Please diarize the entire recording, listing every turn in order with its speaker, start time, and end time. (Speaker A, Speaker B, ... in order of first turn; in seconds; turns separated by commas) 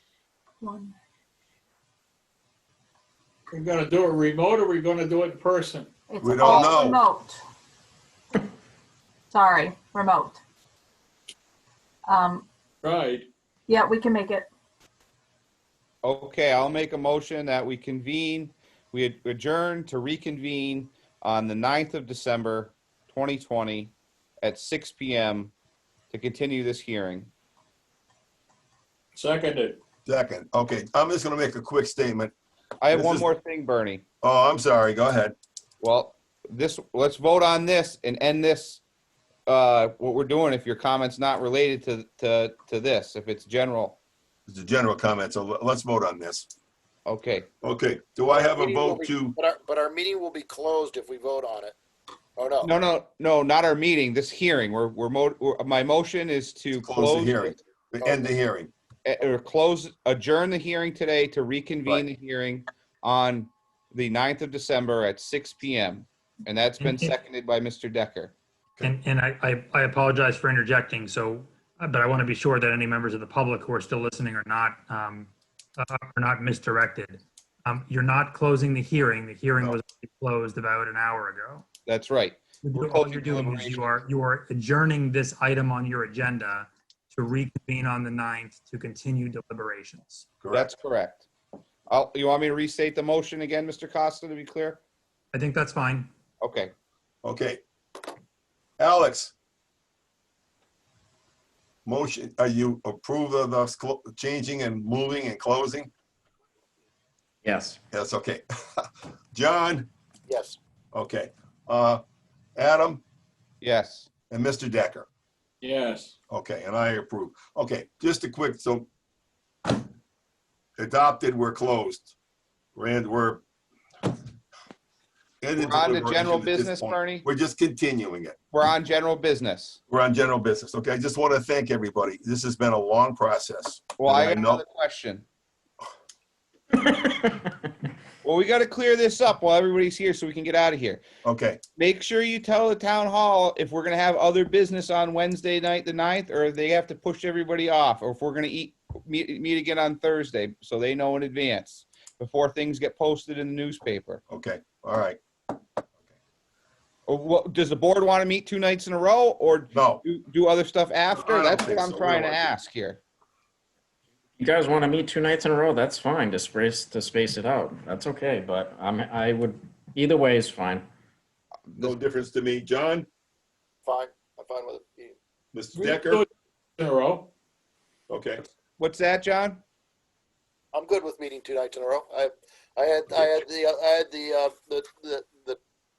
Speaker A: 0.6-0.9, Speaker B: 3.5-5.9, Speaker A: 6.1-7.4, Speaker C: 6.2-7.0, Speaker A: 9.3-10.4, Speaker A: 12.1-12.4, Speaker B: 12.8-13.3, Speaker A: 13.7-14.5, Speaker D: 16.0-25.5, Speaker D: 26.1-27.3, Speaker B: 29.1-29.8, Speaker C: 30.1-32.3, Speaker D: 32.8-34.0, Speaker C: 32.9-33.3, Speaker C: 34.2-35.4, Speaker D: 35.8-38.8, Speaker D: 39.5-44.0, Speaker C: 44.5-46.5, Speaker D: 47.1-47.5, Speaker C: 47.6-49.4, Speaker E: 48.3-51.8, Speaker E: 52.4-52.7, Speaker D: 52.6-57.6, Speaker C: 56.8-58.7, Speaker E: 58.0-58.4, Speaker D: 59.0-68.3, Speaker F: 66.8-67.1, Speaker F: 68.8-81.7, Speaker D: 81.8-84.0, Speaker F: 82.6-90.2, Speaker C: 90.4-90.7, Speaker D: 90.5-91.3, Speaker D: 91.9-94.8, Speaker F: 95.3-96.1, Speaker D: 96.4-96.7, Speaker C: 97.2-97.6, Speaker C: 98.8-99.3, Speaker C: 101.8-105.9, Speaker G: 107.4-107.8, Speaker C: 107.9-108.4, Speaker C: 109.3-109.9, Speaker E: 110.3-110.6, Speaker C: 110.9-112.0, Speaker C: 112.5-113.0, Speaker D: 113.6-114.1, Speaker C: 114.3-115.1, Speaker B: 115.6-116.2, Speaker C: 116.3-118.9, Speaker C: 120.8-122.1, Speaker C: 122.7-123.4, Speaker C: 125.4-128.3, Speaker D: 125.5-127.2, Speaker D: 128.5-129.8, Speaker C: 129.9-134.6, Speaker D: 134.0-135.2, Speaker D: 138.2-141.0, Speaker C: 141.2-141.6, Speaker D: 141.8-154.2, Speaker C: 154.3-155.2, Speaker D: 157.1-163.0, Speaker C: 159.7-160.0, Speaker C: 161.2-162.5, Speaker G: 164.4-170.9, Speaker C: 171.8-173.1, Speaker E: 173.8-175.2, Speaker C: 175.5-176.2, Speaker B: 175.7-176.3, Speaker B: 176.8-177.3, Speaker C: 178.1-178.4, Speaker D: 178.8-179.6, Speaker E: 180.7-185.6